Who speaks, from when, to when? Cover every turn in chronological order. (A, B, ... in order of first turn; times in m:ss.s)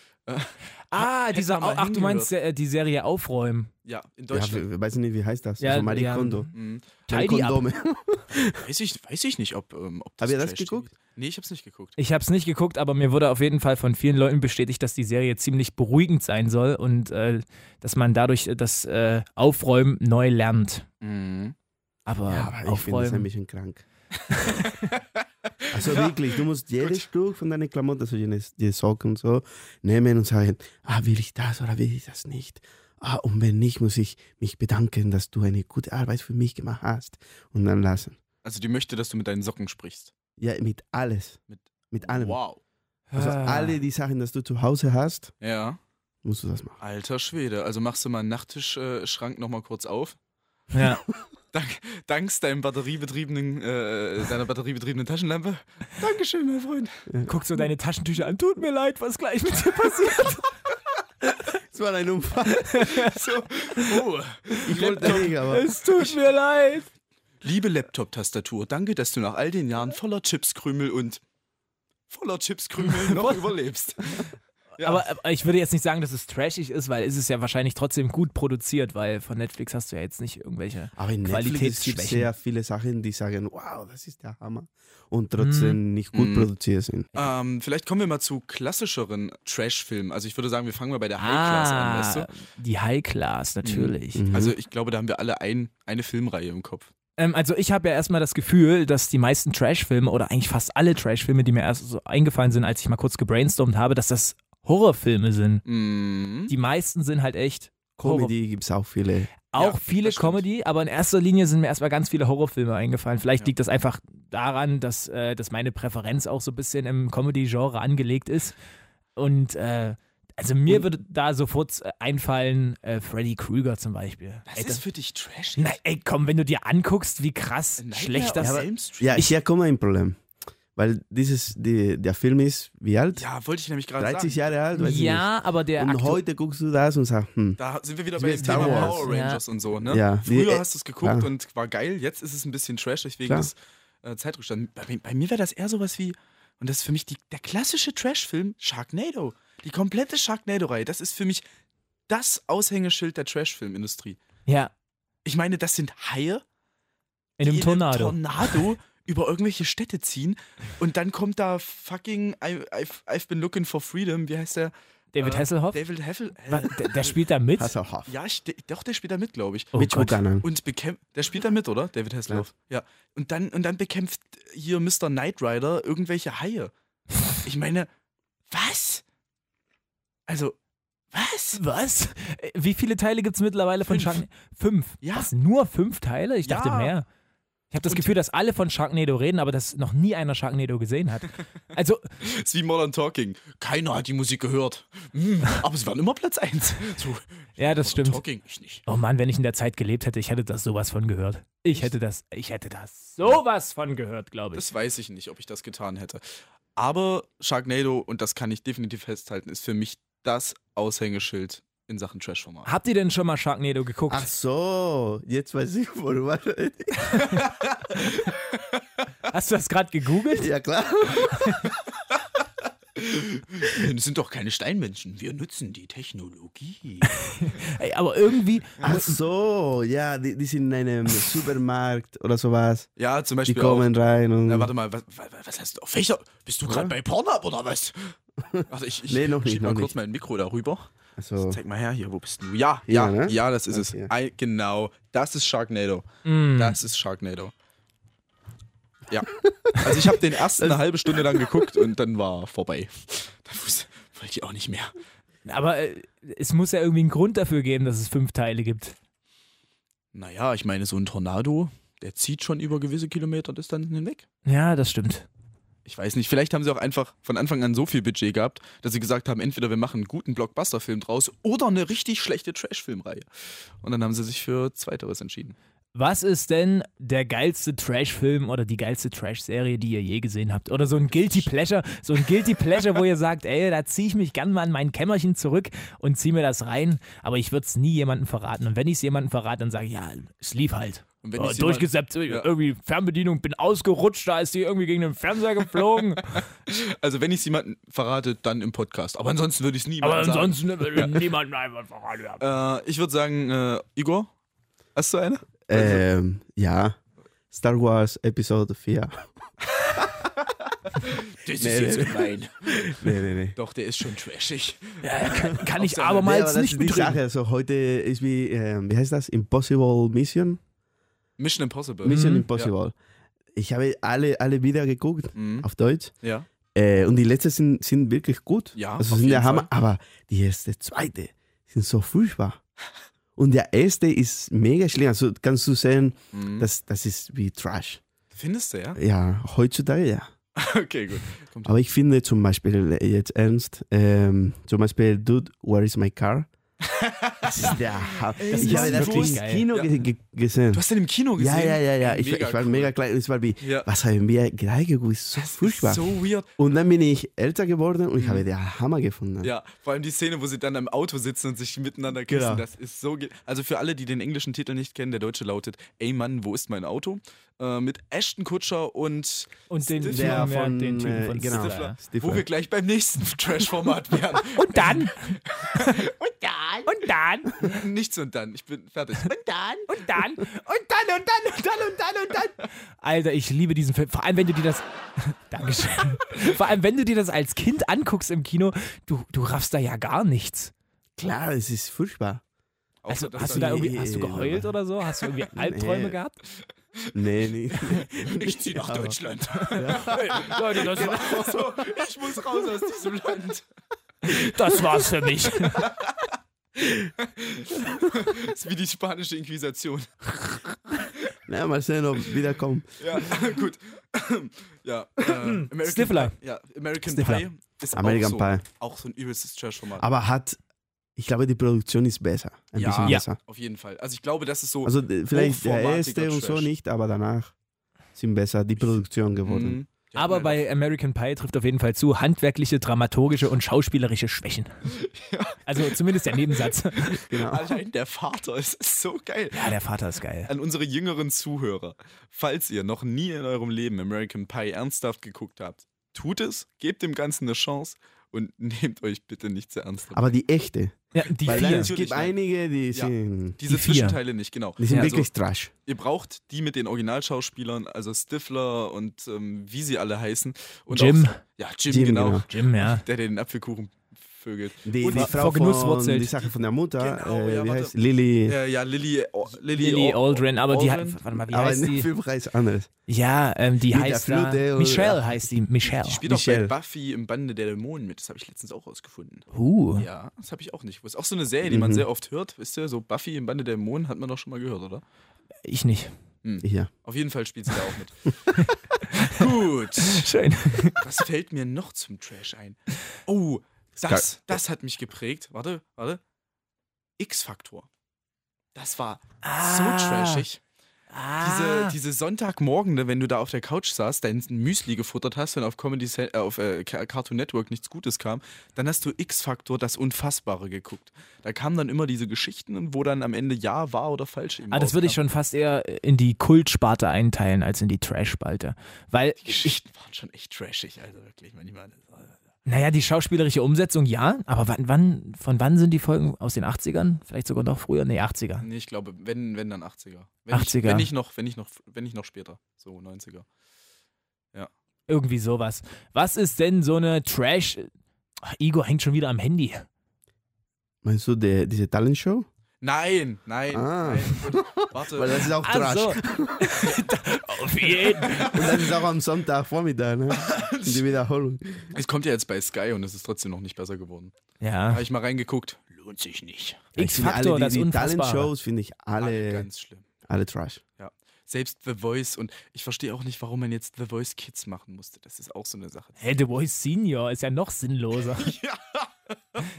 0:00.3-0:02.3 A
0:00.9-0:03.7 B
0:03.8-0:04.6 A
0:04.3-0:06.5 C
0:05.6-0:06.5 B
0:06.5-0:07.0 A
0:07.1-0:07.6 B
0:07.1-0:08.6 C
0:08.6-0:11.9 A
0:10.2-0:10.9 C
0:12.0-0:20.8 B
0:21.0-0:21.5 A
0:22.0-0:23.3 B
0:22.3-0:23.8 C
0:24.4-0:24.7 B
0:25.7-0:26.2 A
0:25.7-0:38.2 C
0:38.4-0:40.1 A
0:40.4-0:41.4 C
0:41.5-0:42.6 A
0:41.9-0:42.4 C
0:43.1-0:43.8 B
0:43.2-0:45.3 C
0:45.4-0:45.8 A
0:46.2-0:46.8 C
0:46.8-0:50.2 A
0:50.7-0:51.0 B
0:51.5-0:57.0 A
0:57.1-0:57.3 C
0:57.2-1:00.5 B
1:01.7-1:02.9 C
1:02.6-1:03.1 B
1:03.0-1:06.2 A
1:04.5-1:06.9 B
1:04.6-1:05.7 C
1:07.4-1:11.2 A
1:12.1-1:15.0 A
1:12.8-1:13.5 B
1:14.8-1:22.3 B
1:21.0-1:27.1 C
1:25.4-1:25.8 B
1:26.1-1:26.5 A
1:27.1-1:32.3 A
1:31.2-1:34.2 B
1:33.6-1:36.9 A
1:34.1-1:34.5 C
1:37.2-1:45.6 B
1:45.6-1:46.5 A
1:46.5-1:48.3 B
1:48.0-1:49.3 C
1:49.5-1:58.6 B
1:49.5-1:50.4 A
1:59.2-2:04.8 B
2:04.5-2:05.8 A
2:05.6-2:08.6 B
2:07.8-2:09.3 A
2:08.4-2:10.2 C
2:10.8-2:13.2 C
2:13.1-2:14.4 A
2:14.0-2:17.6 C
2:14.7-2:16.2 B
2:17.6-2:31.4 A
2:18.1-2:19.1 C
2:18.4-2:19.4 B
2:19.8-2:21.3 C
2:32.1-2:34.2 A
2:34.5-2:34.7 B
2:35.2-2:36.4 A
2:37.4-2:38.5 B
2:37.4-2:47.2 A
2:45.1-2:45.8 B
2:46.5-2:47.7 B
2:47.6-2:48.1 C
2:48.1-2:49.8 A
2:49.7-2:50.2 B
2:49.8-2:50.5 C
2:50.4-2:56.7 A
2:57.4-2:57.9 A
2:58.5-2:59.0 A
3:00.3-3:00.6 A
3:01.1-3:01.6 A
3:01.6-3:07.0 B
3:03.9-3:04.2 A
3:05.0-3:05.3 A
3:06.4-3:06.9 A
3:07.7-3:12.1 B
3:12.2-3:18.8 A
3:17.6-3:18.2 B
3:18.8-3:24.6 B
3:24.5-3:26.2 A
3:26.8-3:32.7 A
3:32.6-3:34.3 B
3:34.1-3:37.4 C
3:39.3-3:40.5 B
3:40.3-3:41.6 C
3:43.0-3:47.1 A
3:47.1-3:49.1 B
3:48.8-3:52.9 C
3:53.0-3:53.9 A
3:53.4-3:54.7 C
3:54.4-3:58.1 A
3:56.6-3:56.9 C
3:58.4-3:59.9 C
3:58.7-4:07.5 A
4:01.2-4:01.6 C
4:02.9-4:04.1 C
4:06.2-4:06.8 B
4:09.1-4:14.9 A
4:10.6-4:11.5 C
4:15.4-4:19.0 B
4:20.1-4:24.2 A
4:24.4-4:25.3 B
4:25.8-4:33.3 A
4:33.8-4:35.6 A
4:35.9-4:56.4 B
4:41.0-4:41.5 A
4:51.2-4:52.5 A
4:56.7-5:01.2 A
5:00.0-5:02.4 B
5:02.4-5:04.3 A
5:05.0-5:06.0 A
5:05.7-5:07.0 C
5:07.5-5:09.3 C
5:11.0-5:16.2 A
5:11.6-5:13.5 C
5:15.0-5:17.2 B
5:16.2-5:20.6 C
5:21.4-5:22.7 A
5:22.0-5:22.9 C
5:22.1-5:22.5 B
5:23.5-5:26.1 C
5:25.4-5:25.7 A
5:26.2-5:26.5 A
5:26.7-5:32.6 C
5:28.7-5:29.7 A
5:33.4-5:38.0 C
5:36.3-5:36.7 A
5:38.3-5:39.0 A
5:39.0-5:40.3 C
5:40.6-5:41.7 A
5:41.6-5:46.5 C
5:46.8-5:49.9 A
5:47.4-5:50.8 C
5:48.5-5:49.6 B
5:50.7-5:52.9 A
5:51.4-5:56.0 C
5:53.6-5:53.9 A
5:55.4-5:56.5 A
5:56.6-5:59.5 C
5:58.2-5:58.5 A
5:59.4-6:10.6 A
6:02.2-6:02.6 C
6:09.7-6:12.0 B
6:10.0-6:12.4 C
6:11.5-6:16.8 A
6:14.5-6:16.0 B
6:16.8-6:17.8 B
6:17.6-6:19.9 A
6:19.9-6:30.7 B
6:31.2-6:32.4 C
6:33.0-6:33.9 A
6:33.1-6:36.4 B
6:33.4-6:34.7 C
6:35.5-6:36.2 C
6:37.1-6:39.2 C
6:37.9-6:43.6 A
6:39.5-6:41.5 B
6:39.8-6:42.0 C
6:44.2-6:45.8 B
6:45.8-6:46.3 A
6:47.2-6:51.3 A
6:51.5-6:52.9 C
6:53.0-7:00.1 A
6:55.7-6:56.3 B
6:57.1-6:57.4 B
6:57.9-6:58.6 C
7:00.0-7:00.6 C
7:01.2-7:03.4 C
7:02.8-7:06.7 A
7:04.8-7:07.5 C
7:08.1-7:09.8 C
7:08.8-7:10.6 A
7:10.2-7:14.9 B
7:14.9-7:19.7 A
7:15.6-7:17.2 B
7:17.2-7:17.7 C
7:19.5-7:20.5 B
7:20.5-7:30.3 A
7:30.1-7:33.6 C
7:31.1-7:31.9 B
7:31.4-7:32.4 A
7:32.9-7:35.3 A
7:33.7-7:34.2 B
7:34.8-7:35.7 C
7:35.8-7:45.4 A
7:40.9-7:41.4 B
7:41.9-7:42.4 C
7:42.5-7:43.0 B
7:44.8-7:48.6 C
7:45.1-7:46.3 B
7:47.0-7:47.9 A
7:48.4-7:51.2 A
7:49.7-7:52.1 B
7:51.5-7:52.9 C
7:53.1-7:56.2 B
7:53.9-7:55.2 C
7:55.9-8:05.0 A
7:56.2-7:56.7 C
7:59.5-8:00.0 B
8:01.6-8:02.0 C
8:05.6-8:06.1 B
8:06.4-8:08.3 A
8:06.6-8:06.9 C
8:08.5-8:09.4 B
8:09.1-8:10.3 A
8:10.0-8:11.0 B
8:11.0-8:16.2 A
8:17.2-8:17.9 A
8:18.7-8:20.6 A
8:19.4-8:20.4 B
8:21.1-8:21.9 B
8:21.4-8:35.2 A
8:34.7-8:39.8 B
8:39.4-8:42.3 A
8:42.6-8:48.6 B
8:48.6-8:53.4 A
8:50.5-8:51.1 B
8:55.1-8:57.9 B
8:58.4-8:59.9 B
9:01.0-9:02.5 C
9:02.8-9:05.5 A
9:03.7-9:06.7 C
9:05.6-9:08.6 B
9:08.1-9:08.8 A
9:08.4-9:11.9 C
9:10.3-9:11.0 A
9:11.9-9:14.3 A
9:14.6-9:15.0 B
9:14.9-9:16.8 A
9:17.0-9:18.5 B
9:17.0-9:19.7 C
9:19.2-9:20.0 A
9:20.2-9:20.8 C
9:21.0-9:26.2 A
9:26.2-9:28.5 B
9:28.4-9:29.6 A